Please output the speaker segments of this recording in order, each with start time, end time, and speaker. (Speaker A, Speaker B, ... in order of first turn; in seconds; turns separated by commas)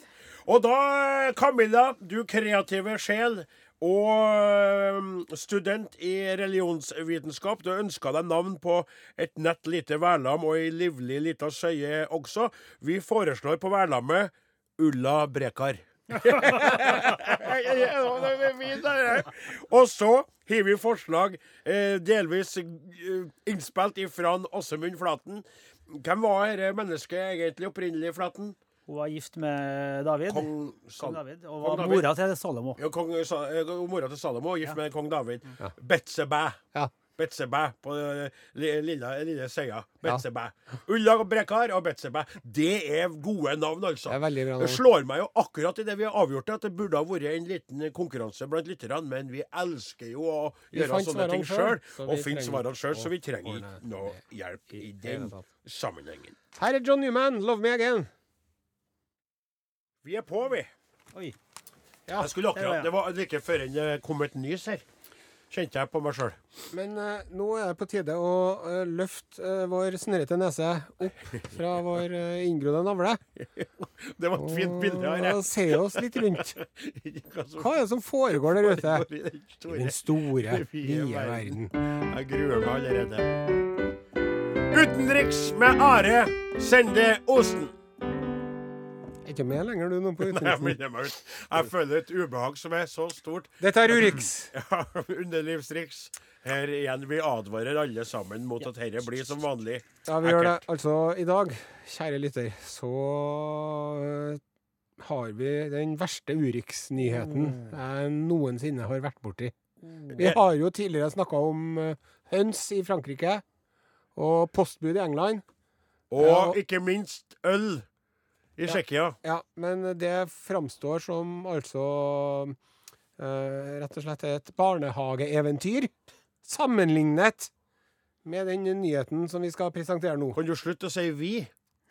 Speaker A: 0.5-28.6, Speaker B: 28.9-32.8, Speaker A: 30.3-32.1, Speaker A: 32.8-36.6, Speaker A: 37.1-56.3, Speaker C: 44.1-44.8, Speaker C: 50.7-54.1, Speaker C: 55.0-55.5, Speaker C: 56.6-58.1, Speaker A: 60.0-60.7, Speaker A: 62.2-64.8, Speaker B: 62.5-62.9, Speaker A: 65.5-66.4, Speaker C: 66.7-73.2, Speaker A: 73.4-77.8, Speaker C: 74.3-76.5, Speaker C: 77.6-79.1, Speaker A: 78.3-83.4, Speaker C: 79.7-81.7, Speaker A: 84.7-87.8, Speaker C: 89.2-90.8, Speaker A: 90.2-100.6, Speaker C: 93.6-94.5, Speaker C: 100.0-104.4, Speaker C: 105.0-109.5, Speaker B: 107.2-107.6, Speaker A: 110.1-110.4, Speaker C: 110.1-113.4, Speaker C: 114.2-115.4, Speaker A: 116.1-117.9, Speaker C: 116.2-116.6, Speaker A: 118.6-119.2, Speaker C: 118.7-122.6, Speaker C: 123.2-127.5, Speaker C: 128.2-130.4, Speaker A: 130.3-131.5